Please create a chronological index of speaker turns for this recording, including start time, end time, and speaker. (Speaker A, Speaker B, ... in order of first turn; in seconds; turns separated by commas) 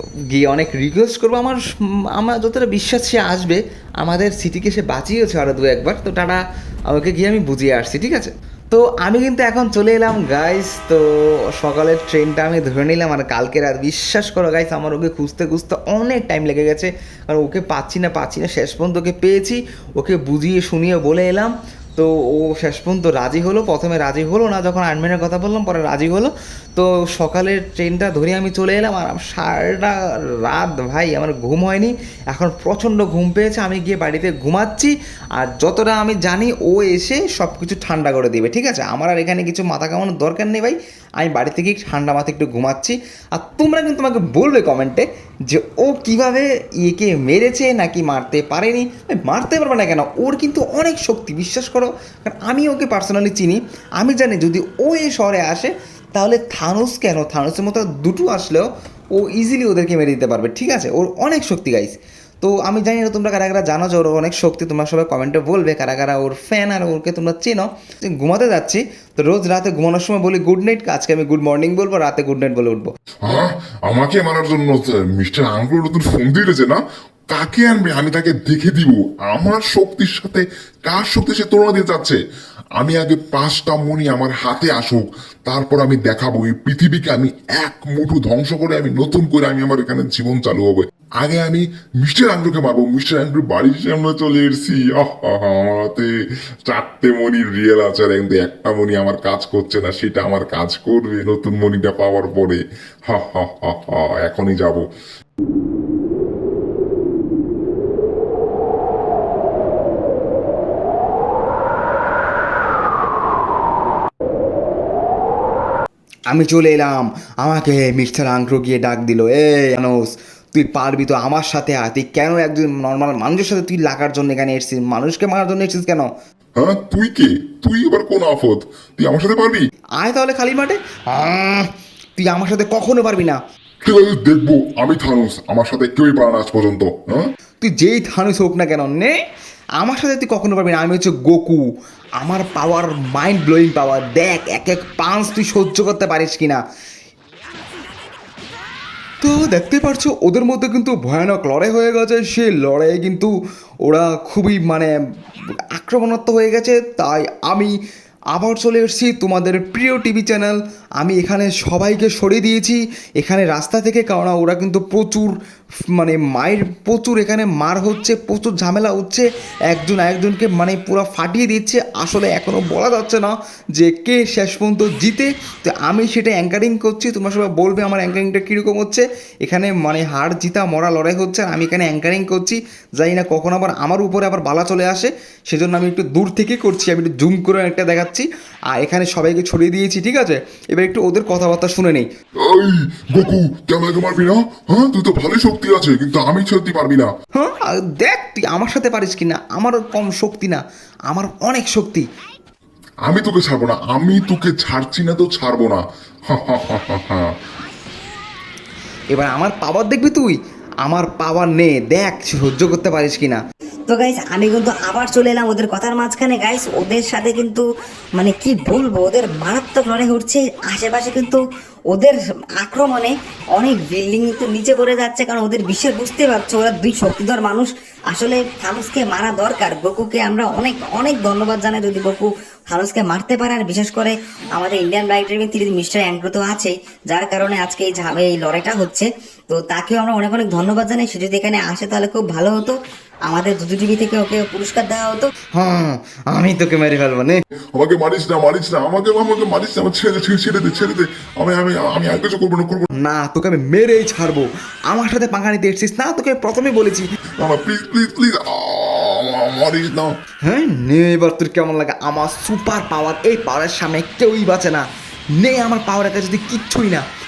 Speaker A: 0.3-72.9, Speaker B: 73.2-82.2, Speaker B: 82.8-96.1, Speaker B: 96.7-104.8, Speaker A: 116.3-126.1, Speaker B: 126.6-129.7, Speaker A: 130.0-133.4, Speaker B: 133.8-137.3, Speaker A: 137.6-139.1, Speaker A: 139.8-141.6, Speaker A: 142.2-146.6, Speaker A: 149.2-153.3, Speaker A: 153.8-154.9, Speaker A: 155.8-157.8, Speaker A: 158.3-165.3, Speaker A: 165.9-192.1, Speaker B: 192.5-197.1, Speaker A: 197.3-202.1, Speaker B: 203.1-207.3, Speaker A: 209.1-213.4, Speaker C: 213.9-245.3, Speaker A: 245.5-247.4, Speaker B: 247.8-252.9, Speaker A: 253.0-257.1, Speaker B: 257.4-260.1, Speaker A: 260.4-267.1